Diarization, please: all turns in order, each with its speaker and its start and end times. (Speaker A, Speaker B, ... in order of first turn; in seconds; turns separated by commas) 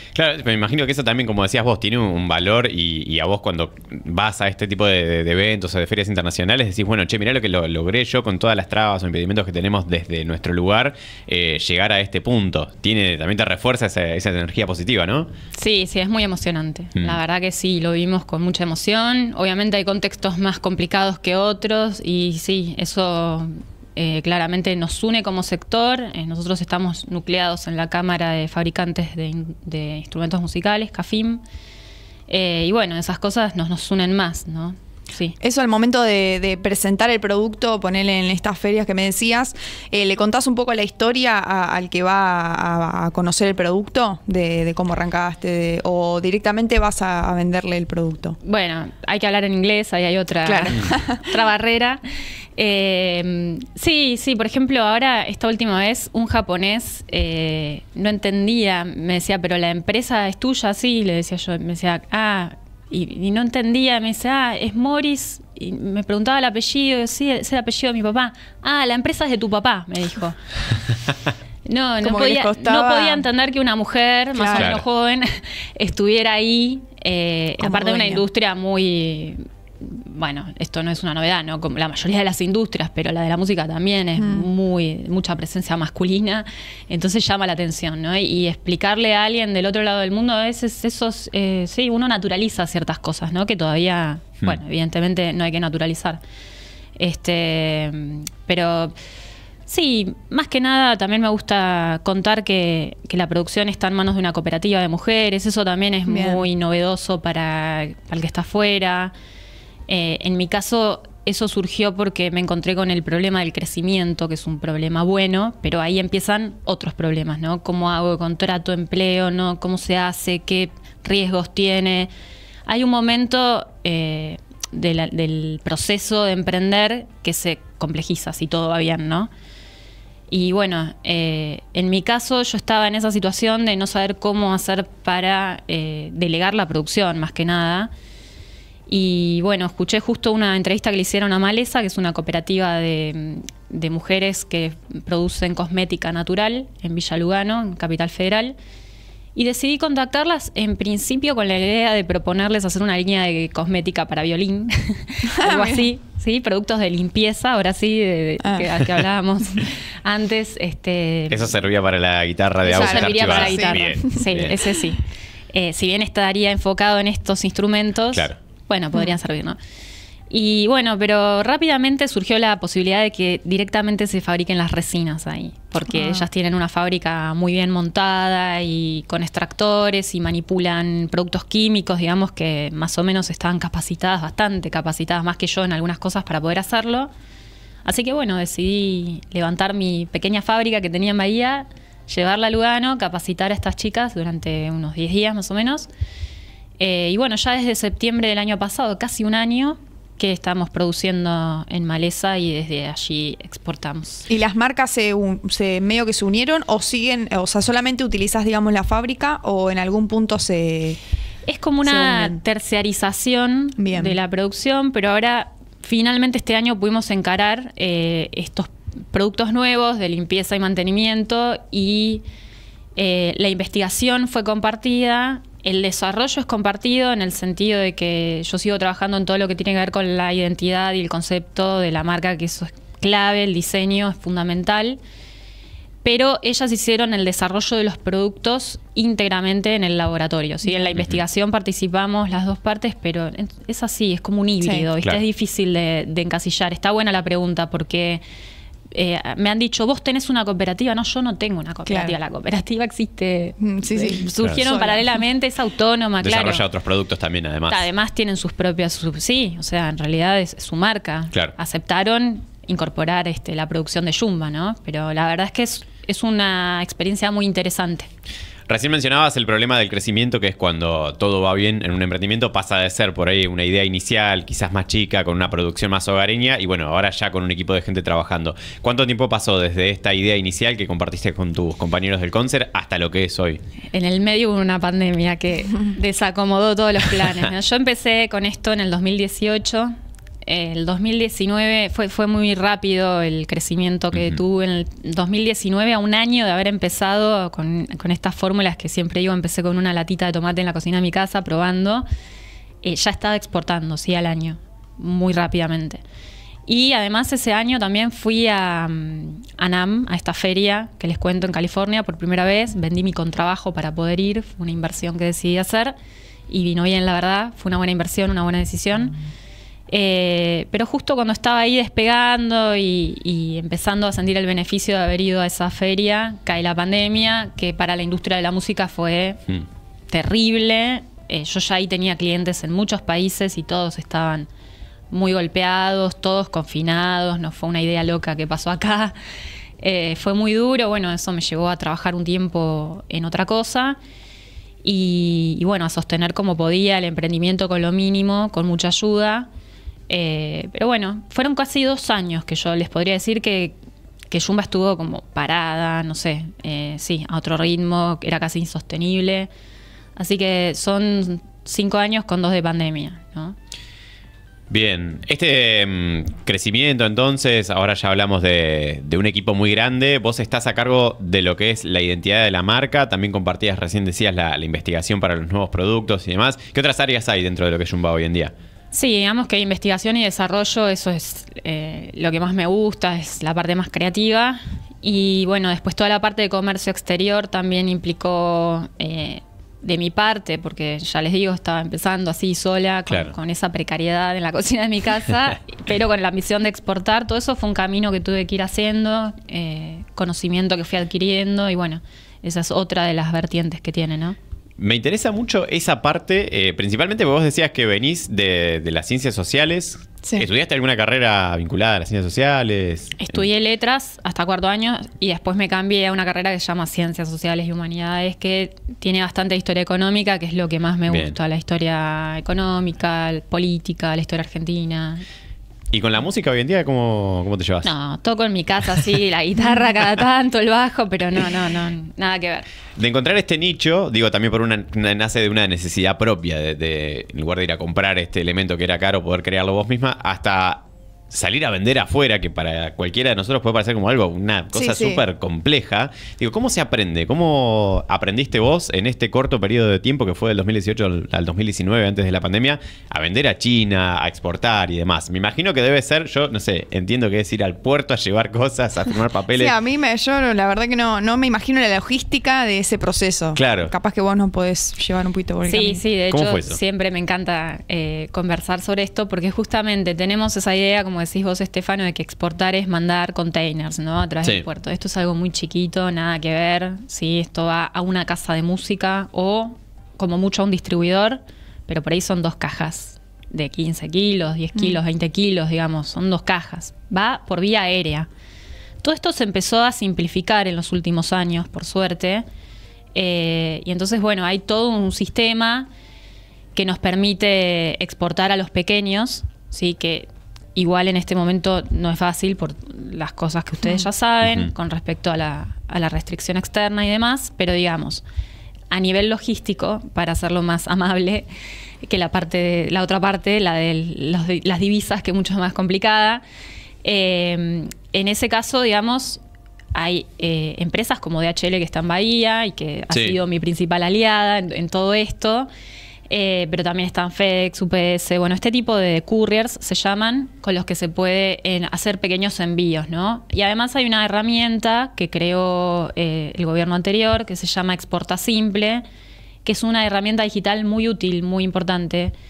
Speaker A: 0.1-15.3, Speaker B: 15.5-31.4, Speaker B: 32.3-35.4, Speaker C: 35.4-48.4, Speaker B: 48.4-52.0, Speaker C: 50.4-51.2, Speaker B: 52.5-70.4, Speaker B: 71.7-96.2, Speaker C: 72.0-73.2, Speaker C: 74.3-74.7, Speaker A: 74.5-74.8, Speaker C: 77.6-78.2, Speaker C: 84.2-84.5, Speaker B: 97.0-98.9, Speaker B: 99.7-109.1, Speaker C: 106.1-106.4, Speaker B: 109.9-122.1, Speaker B: 122.7-129.3, Speaker B: 130.3-137.9, Speaker B: 138.9-148.5, Speaker B: 149.3-161.6, Speaker C: 155.3-155.9, Speaker C: 158.4-158.7, Speaker A: 161.3-164.6, Speaker C: 162.6-164.2, Speaker B: 162.6-169.6, Speaker B: 170.3-187.1, Speaker C: 175.9-176.2, Speaker B: 187.8-195.9, Speaker B: 196.8-204.3, Speaker C: 204.3-211.0, Speaker B: 211.5-222.2, Speaker C: 211.8-212.4, Speaker C: 213.8-214.2, Speaker B: 222.9-235.0, Speaker B: 236.0-248.2, Speaker A: 240.9-241.2, Speaker B: 248.9-256.6, Speaker C: 251.9-252.1, Speaker C: 253.6-255.2, Speaker A: 256.2-257.9, Speaker B: 257.7-268.1, Speaker A: 268.7-283.6, Speaker B: 283.9-289.9, Speaker B: 290.4-302.1, Speaker B: 302.8-306.0, Speaker B: 306.7-316.0, Speaker B: 316.5-319.1, Speaker B: 319.9-329.4, Speaker B: 330.1-334.5, Speaker B: 335.1-339.1, Speaker B: 339.8-344.0, Speaker B: 344.8-349.5, Speaker B: 350.1-353.7, Speaker B: 354.3-359.5, Speaker B: 360.1-363.6, Speaker A: 364.7-378.5, Speaker B: 378.9-404.4, Speaker A: 404.8-413.4, Speaker B: 413.2-425.2, Speaker A: 421.1-421.4, Speaker A: 425.9-427.9, Speaker B: 427.8-432.6, Speaker A: 433.0-459.7, Speaker C: 444.7-445.2, Speaker C: 459.6-466.0, Speaker A: 463.5-463.9, Speaker B: 465.6-488.3, Speaker A: 466.3-466.8, Speaker B: 489.0-492.4, Speaker B: 493.1-495.9, Speaker B: 496.7-508.2, Speaker A: 504.4-504.7, Speaker B: 508.9-511.5, Speaker B: 512.0-516.4, Speaker B: 517.0-519.4, Speaker B: 519.9-525.7, Speaker A: 523.1-523.4, Speaker B: 526.3-539.0, Speaker B: 539.6-542.3